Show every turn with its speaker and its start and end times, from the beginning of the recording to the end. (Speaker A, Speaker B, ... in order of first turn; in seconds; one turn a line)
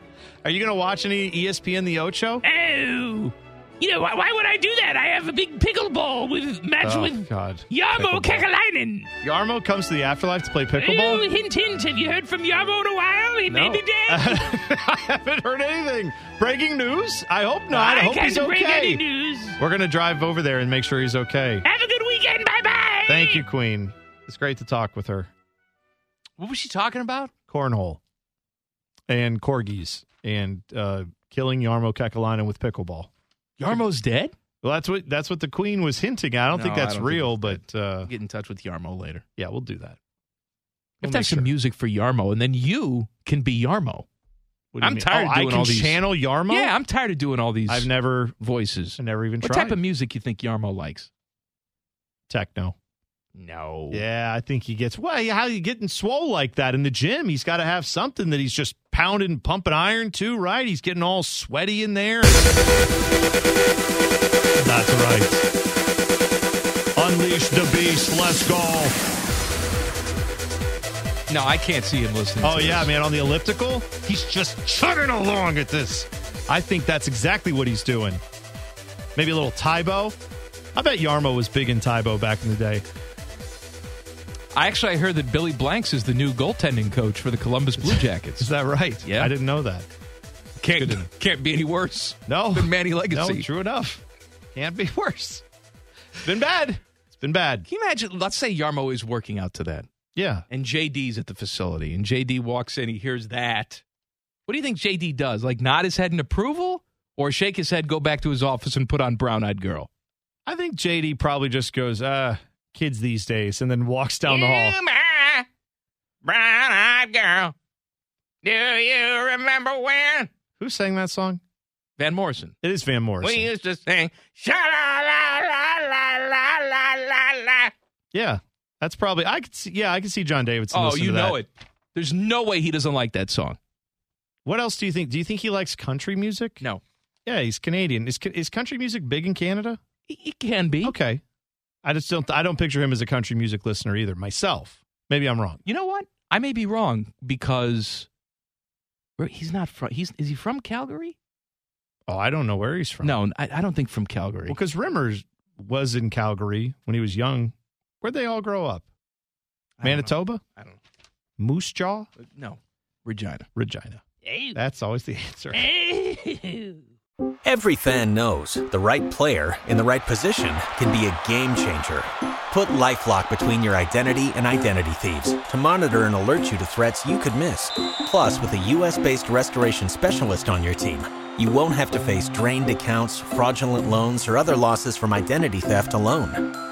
Speaker A: 0.4-2.4
Speaker B: 2.5-3.2
Speaker C: 2.6-6.9
Speaker B: 5.9-7.2
Speaker A: 6.8-8.5
Speaker B: 7.7-8.5
Speaker C: 7.8-9.1
Speaker A: 9.2-11.2
Speaker B: 10.8-11.8
Speaker C: 11.1-14.1
Speaker B: 13.2-14.4
Speaker A: 13.5-19.0
Speaker B: 17.7-19.5
Speaker C: 18.1-19.4
Speaker A: 19.6-21.6
Speaker B: 21.7-23.4
Speaker C: 21.8-23.1
Speaker A: 23.1-25.3
Speaker B: 26.4-27.3
Speaker A: 27.5-28.0
Speaker A: 29.1-33.1
Speaker B: 33.6-34.3
Speaker A: 34.6-38.1
Speaker B: 36.5-39.2
Speaker A: 39.4-40.0
Speaker B: 41.0-44.0
Speaker A: 41.0-41.5
Speaker A: 44.7-46.7
Speaker B: 44.8-51.1
Speaker A: 47.7-48.4
Speaker A: 49.0-49.8
Speaker A: 52.3-52.7
Speaker B: 53.4-54.0
Speaker A: 53.9-62.5
Speaker A: 64.6-65.4
Speaker A: 67.0-69.0
Speaker B: 71.3-72.9
Speaker A: 72.4-78.2
Speaker A: 79.2-80.1
Speaker A: 80.7-82.8
Speaker B: 84.5-88.5
Speaker A: 87.8-89.9
Speaker B: 89.0-89.3
Speaker B: 90.6-93.5
Speaker A: 90.8-91.0
Speaker A: 92.3-94.0
Speaker A: 94.5-95.4
Speaker A: 96.2-97.7
Speaker B: 97.7-99.9
Speaker A: 100.1-100.5
Speaker B: 100.5-103.8
Speaker B: 104.5-109.9
Speaker A: 110.5-114.8
Speaker B: 114.3-115.5
Speaker B: 116.2-117.5
Speaker B: 118.4-120.3
Speaker A: 120.6-121.4
Speaker B: 122.0-122.5
Speaker A: 122.6-123.5
Speaker B: 123.2-127.7
Speaker A: 128.1-131.4
Speaker B: 130.7-133.6
Speaker A: 134.4-136.6
Speaker A: 137.2-139.8
Speaker B: 140.1-140.9
Speaker A: 140.8-141.2
Speaker A: 141.8-145.6
Speaker B: 145.6-148.1
Speaker B: 149.2-151.2
Speaker A: 152.1-153.2
Speaker B: 153.0-154.6
Speaker A: 154.5-158.8
Speaker B: 159.8-160.8
Speaker A: 159.8-160.4
Speaker A: 161.4-162.1
Speaker B: 162.2-163.4
Speaker A: 163.5-164.0
Speaker B: 164.2-164.6
Speaker A: 164.5-165.7
Speaker B: 165.5-166.8
Speaker C: 166.1-166.8
Speaker D: 167.4-186.5